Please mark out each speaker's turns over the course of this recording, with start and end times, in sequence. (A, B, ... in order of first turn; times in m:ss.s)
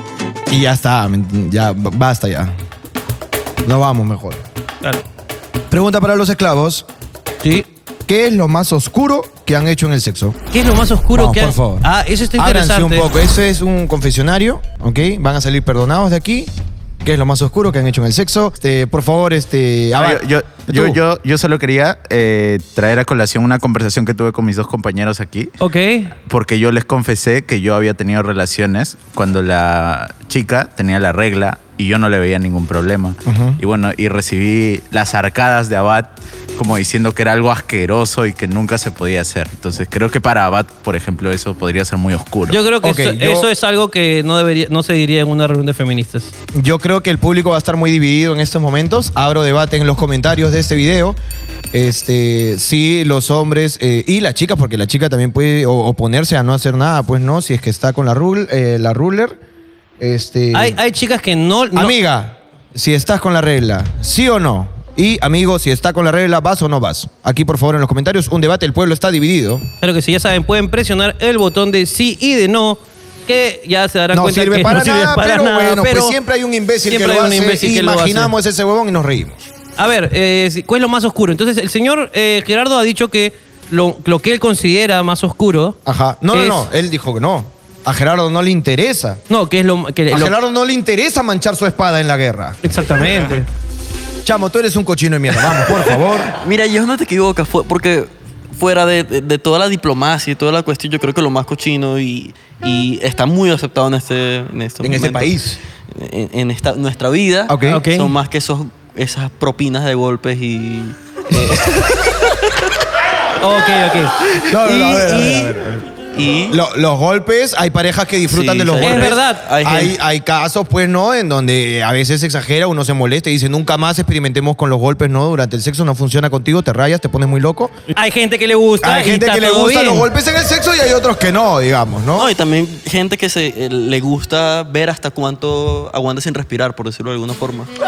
0:00.5-0:02.5 A
0:03.6-0:04.4 A
0:05.7-0:06.9 A
0:08.1-0:10.4 A
0:10.5-0:13.1 B
0:11.1-0:16.5 A
0:17.0-0:21.0 A
0:20.0-0:25.5 C
0:25.6-0:26.1 B
0:26.3-0:42.6 C
0:33.3-0:33.6 A
0:42.5-0:46.3 B
0:42.8-0:43.5 A
0:46.5-0:51.2 A
0:51.7-0:59.4 A
1:00.0-1:00.8 A
1:00.5-1:02.0 B
1:01.8-1:09.6 A
1:09.8-1:16.2 B
1:14.1-1:19.4 A
1:16.9-1:18.3 B
1:19.8-1:25.8 B
1:25.9-1:29.2 A
1:26.3-1:26.7 B
1:29.3-1:30.3 B
1:30.1-1:32.6 A
1:32.6-1:33.5 B
1:34.2-1:36.3 A
1:36.4-1:45.4 D
1:44.8-1:45.6 A
1:45.9-1:52.5 D
1:47.5-1:47.9 A
1:47.7-1:48.1 B
1:53.4-1:55.5 B
1:54.4-1:55.8 A
1:56.1-1:56.6 D
1:56.5-2:07.7 A
1:58.3-2:00.0 D
1:58.8-1:59.5 B
2:08.0-2:10.1 B
2:08.8-2:12.3 A
2:12.1-2:17.7 D